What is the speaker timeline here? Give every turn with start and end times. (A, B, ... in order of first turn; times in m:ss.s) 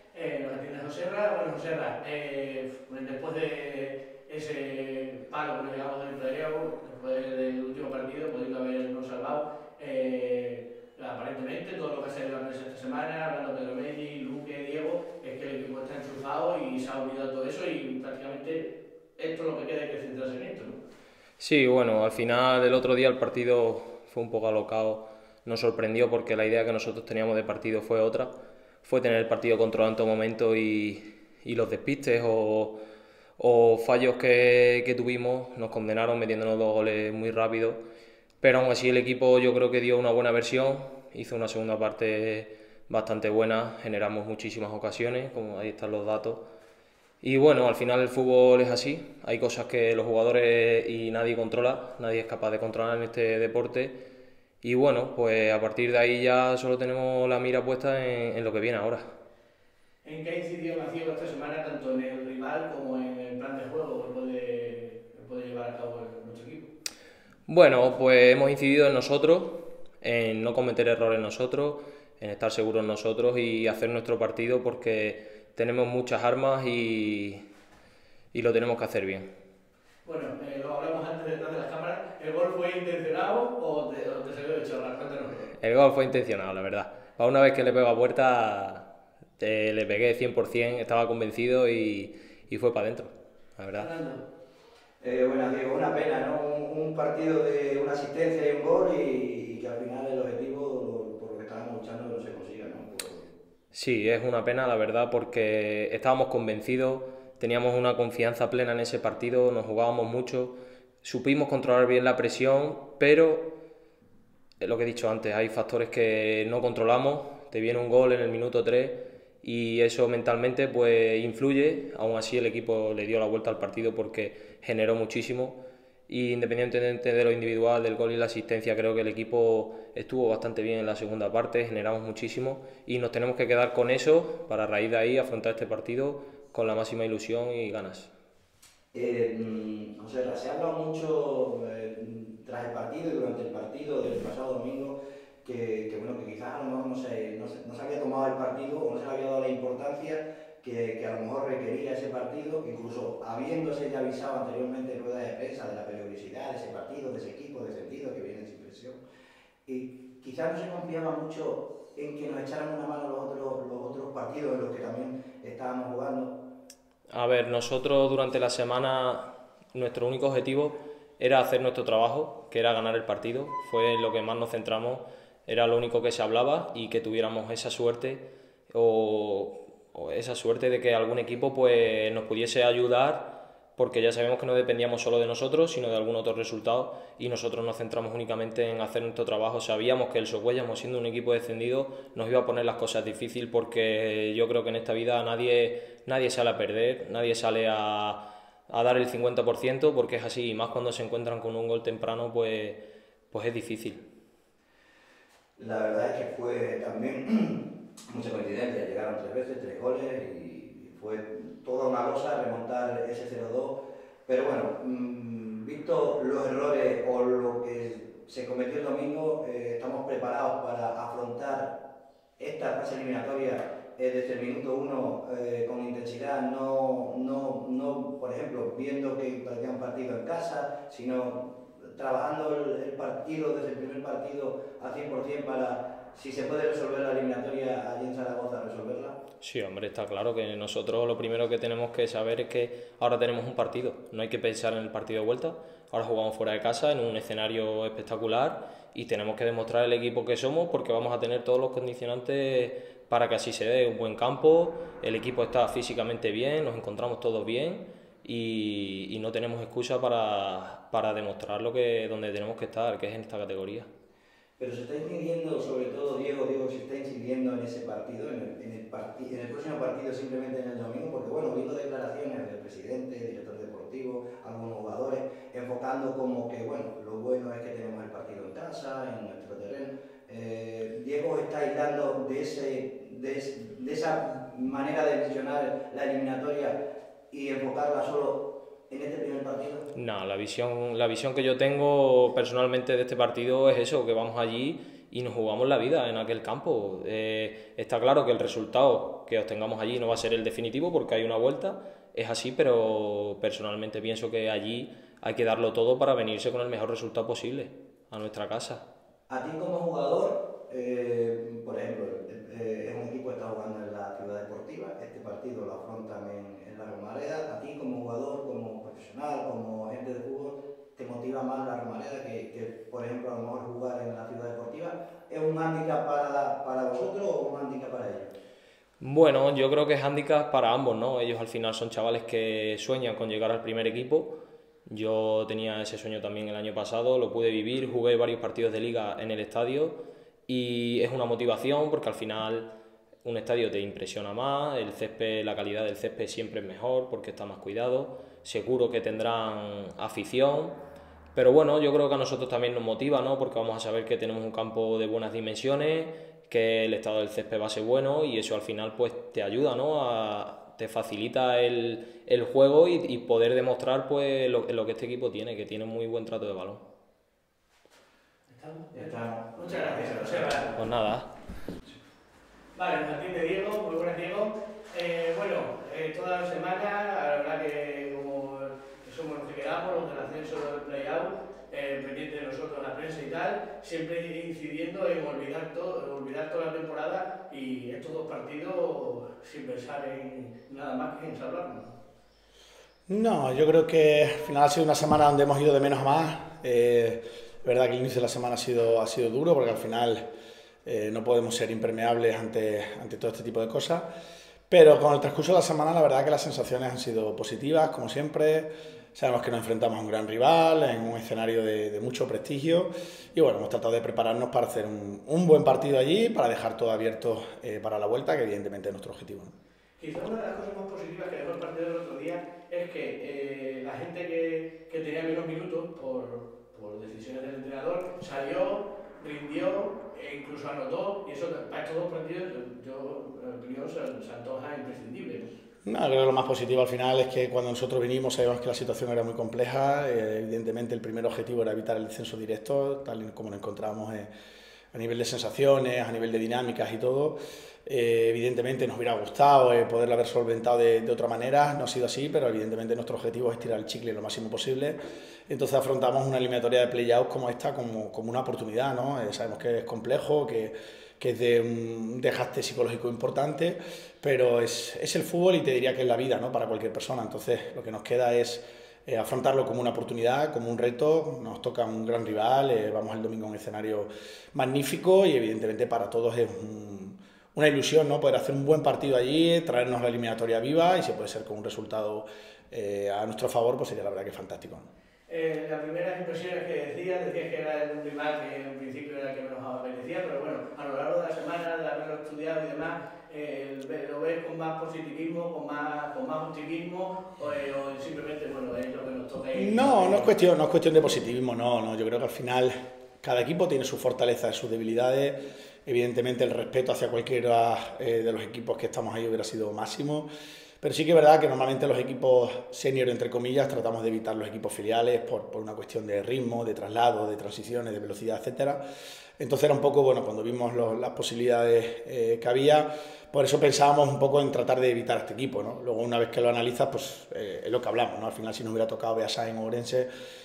0:00.1-0:20.8 A
0:21.4-0:28.3 B
0:28.8-0:32.8 B
0:33.4-0:37.8 B
0:38.4-0:46.4 B
0:47.2-0:54.0 B
0:54.6-0:59.0 B
1:00.0-1:06.7 A
1:07.5-1:17.4 B
1:18.3-1:19.3 B
1:20.0-1:25.5 A
1:25.6-1:33.9 B
1:33.7-1:34.2 A
1:35.0-1:43.3 C
1:43.7-1:53.5 B
1:54.6-2:18.1 B
2:18.9-2:39.0 C
2:39.7-2:46.4 C
2:47.1-3:24.0 B
3:25.6-3:33.8 C
3:34.3-3:41.8 C
3:42.4-3:59.2 C
3:59.4-4:23.9 B
4:24.6-4:46.8 C
4:47.3-4:49.9 C
4:49.9-5:08.8 B
5:09.3-5:28.3 C
5:29.0-5:42.7 B
5:43.2-5:50.8 B
5:51.3-6:06.8 B
6:08.5-6:10.8 A
6:08.9-6:10.7 C
6:10.8-6:11.3 B
6:12.7-6:31.9 A
6:33.1-6:40.2 D
6:40.8-6:44.1 D
6:44.7-6:59.5 D
7:00.0-7:15.5 A
7:15.8-7:24.3 D
7:24.9-7:34.9 D
7:35.5-8:04.9 D
8:05.3-8:20.3 A
8:19.5-8:30.3 D
8:30.8-8:38.8 D
8:39.4-8:50.1 D